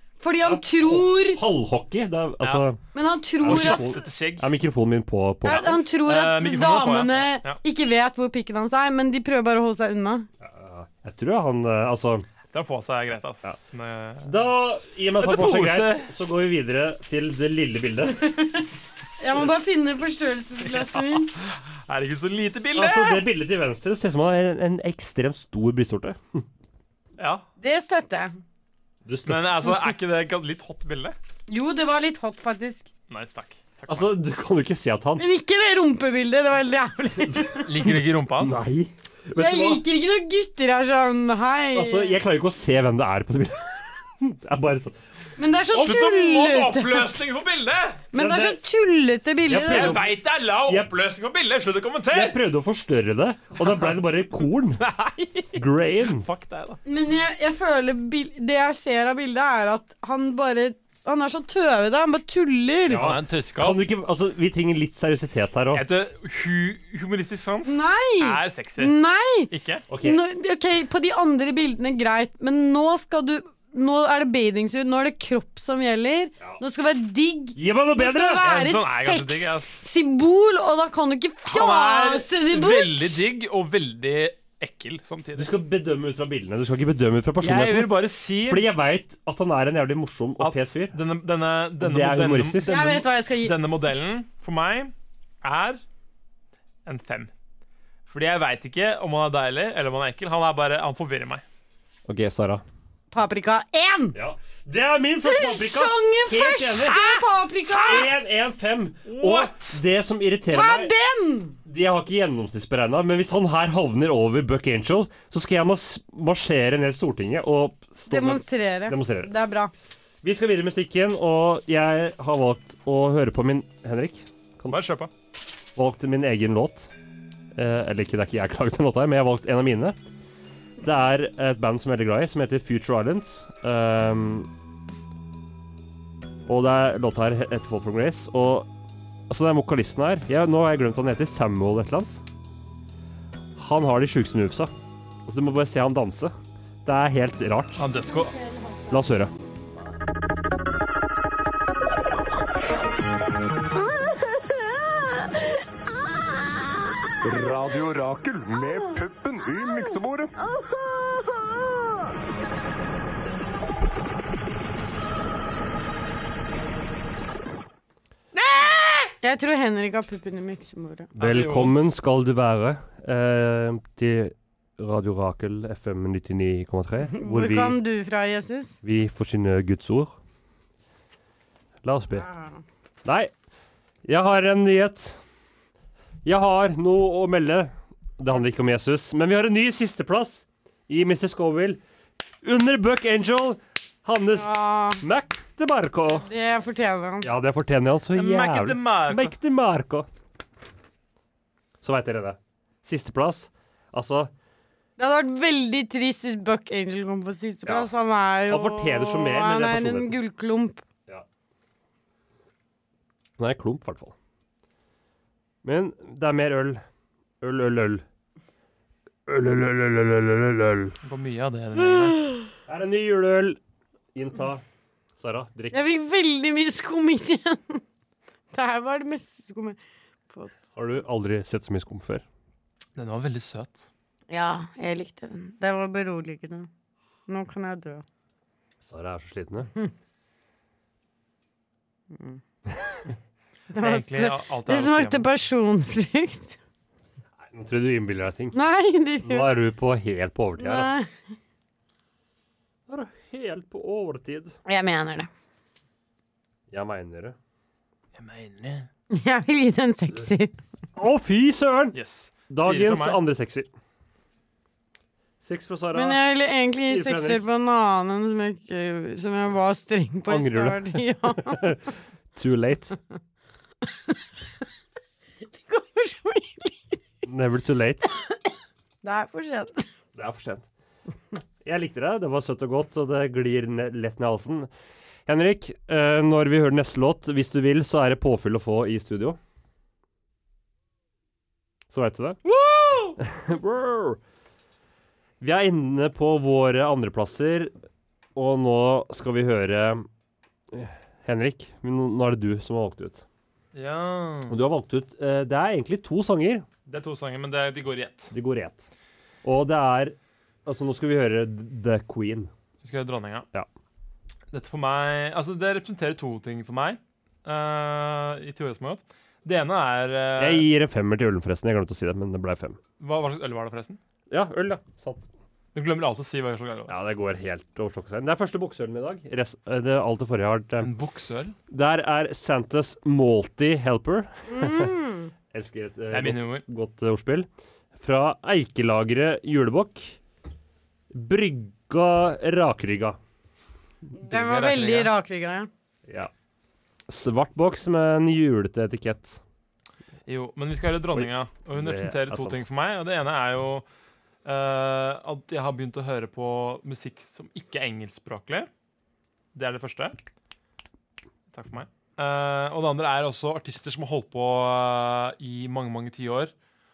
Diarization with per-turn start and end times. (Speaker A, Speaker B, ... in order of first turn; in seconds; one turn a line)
Speaker A: 0.2-1.4
Speaker B: 0.4-2.8
Speaker C: 2.4-2.7
Speaker A: 2.9-3.9
Speaker B: 3.4-5.8
Speaker C: 3.4-4.5
Speaker A: 5.4-10.3
Speaker C: 5.5-7.6
Speaker B: 10.4-12.2
Speaker C: 12.5-14.4
Speaker B: 14.2-18.2
Speaker C: 15.2-16.1
Speaker A: 18.2-18.6
Speaker A: 19.2-21.3
Speaker C: 20.7-23.2
Speaker B: 22.7-26.4
Speaker C: 27.2-27.4
Speaker A: 27.6-28.4
Speaker B: 29.1-29.6
Speaker C: 29.2-31.1
Speaker A: 31.5-32.9
Speaker C: 33.1-34.1
Speaker B: 33.9-35.2
Speaker A: 35.2-37.7
Speaker B: 37.2-39.8
Speaker C: 37.6-38.6
Speaker A: 39.4-42.2
Speaker B: 41.7-44.9
Speaker A: 45.4-47.1
Speaker C: 45.7-48.0
Speaker A: 48.1-50.1
Speaker B: 48.1-48.6
Speaker B: 49.5-50.9
Speaker C: 49.7-52.4
Speaker B: 52.1-54.8
Speaker C: 54.8-56.8
Speaker B: 55.5-56.2
Speaker A: 56.8-63.1
Speaker B: 62.9-65.8
Speaker C: 62.9-63.8
Speaker C: 65.7-68.9
Speaker A: 67.6-69.5
Speaker C: 69.5-69.8
Speaker B: 69.9-70.2
Speaker A: 70.0-83.3
Speaker B: 77.5-78.5
Speaker C: 78.4-79.9
Speaker C: 81.5-85.5
Speaker B: 85.3-91.0
Speaker C: 87.4-88.7
Speaker C: 90.4-95.8
Speaker B: 91.8-92.8
Speaker A: 92.6-93.6
Speaker C: 96.8-97.3
Speaker C: 98.1-101.4
Speaker B: 102.1-102.6
Speaker A: 103.1-104.2
Speaker B: 104.1-110.9
Speaker A: 105.2-108.1
Speaker C: 109.0-109.8
Speaker A: 110.5-111.6
Speaker B: 111.6-119.3
Speaker A: 118.1-119.7
Speaker B: 120.2-124.8
Speaker C: 124.7-125.1
Speaker B: 125.8-126.9
Speaker B: 127.5-130.0
Speaker B: 130.8-134.5
Speaker B: 136.5-138.7
Speaker B: 139.3-142.2
Speaker B: 143.6-144.7
Speaker B: 145.2-147.8
Speaker C: 147.8-148.3
Speaker A: 148.1-148.9
Speaker B: 148.9-149.3
Speaker D: 157.2-160.3
Speaker A: 169.1-171.1
Speaker C: 171.1-171.9
Speaker B: 171.1-177.8
Speaker A: 177.1-178.8
Speaker B: 178.8-180.2
Speaker B: 181.8-182.3
Speaker A: 182.2-182.5
Speaker B: 183.0-183.3
Speaker B: 184.0-185.2
Speaker B: 186.2-191.8
Speaker B: 192.4-196.3
Speaker A: 194.3-195.0
Speaker A: 196.1-197.3
Speaker B: 197.2-200.1
Speaker C: 198.1-199.3
Speaker B: 201.8-204.3
Speaker A: 205.0-210.8
Speaker B: 208.5-210.2
Speaker B: 213.4-214.1
Speaker B: 215.6-216.8
Speaker B: 217.4-218.0
Speaker B: 219.3-220.9
Speaker C: 221.0-222.2
Speaker B: 222.7-223.6
Speaker B: 224.1-224.6
Speaker B: 225.2-225.8
Speaker A: 225.7-227.8
Speaker A: 228.5-229.8
Speaker A: 230.3-230.6
Speaker B: 230.7-232.2
Speaker C: 232.9-233.9
Speaker A: 234.3-236.7
Speaker A: 237.3-238.0
Speaker B: 238.8-239.7
Speaker A: 242.1-242.4
Speaker A: 243.7-246.6
Speaker C: 243.7-245.3
Speaker B: 247.5-248.6
Speaker A: 248.5-249.5
Speaker B: 249.2-251.0
Speaker A: 250.6-251.1
Speaker B: 252.9-254.5
Speaker A: 254.7-255.3
Speaker B: 256.7-257.4
Speaker C: 258.1-258.9
Speaker A: 259.1-260.6
Speaker B: 260.9-262.0
Speaker C: 261.9-263.2
Speaker B: 262.5-263.7
Speaker B: 265.4-266.2
Speaker A: 265.9-271.6
Speaker B: 266.9-267.4
Speaker B: 270.3-271.8
Speaker B: 272.3-273.0
Speaker A: 275.6-277.0
Speaker B: 277.2-278.1
Speaker A: 279.0-279.9
Speaker B: 280.1-280.7
Speaker B: 281.6-284.7
Speaker B: 285.3-289.4
Speaker B: 291.9-292.4
Speaker C: 292.4-293.2
Speaker B: 293.2-294.2
Speaker B: 295.4-297.7
Speaker B: 298.4-300.1
Speaker B: 300.7-303.2
Speaker C: 303.7-304.6
Speaker B: 304.5-306.6
Speaker C: 306.9-308.3
Speaker B: 308.3-308.9
Speaker B: 309.4-312.5
Speaker C: 312.8-313.5
Speaker C: 314.5-320.7
Speaker B: 320.4-322.8
Speaker C: 323.0-324.0
Speaker B: 324.3-325.2
Speaker C: 325.7-326.9
Speaker B: 326.9-330.9
Speaker C: 330.8-331.6
Speaker B: 331.7-334.9
Speaker A: 334.5-335.3
Speaker B: 335.5-340.2
Speaker C: 336.1-336.6
Speaker B: 341.1-343.2
Speaker A: 344.2-345.7
Speaker C: 344.2-345.1
Speaker B: 347.1-349.4
Speaker C: 350.2-353.9
Speaker B: 351.1-352.6
Speaker C: 354.4-358.7
Speaker C: 359.5-360.2
Speaker C: 361.5-366.5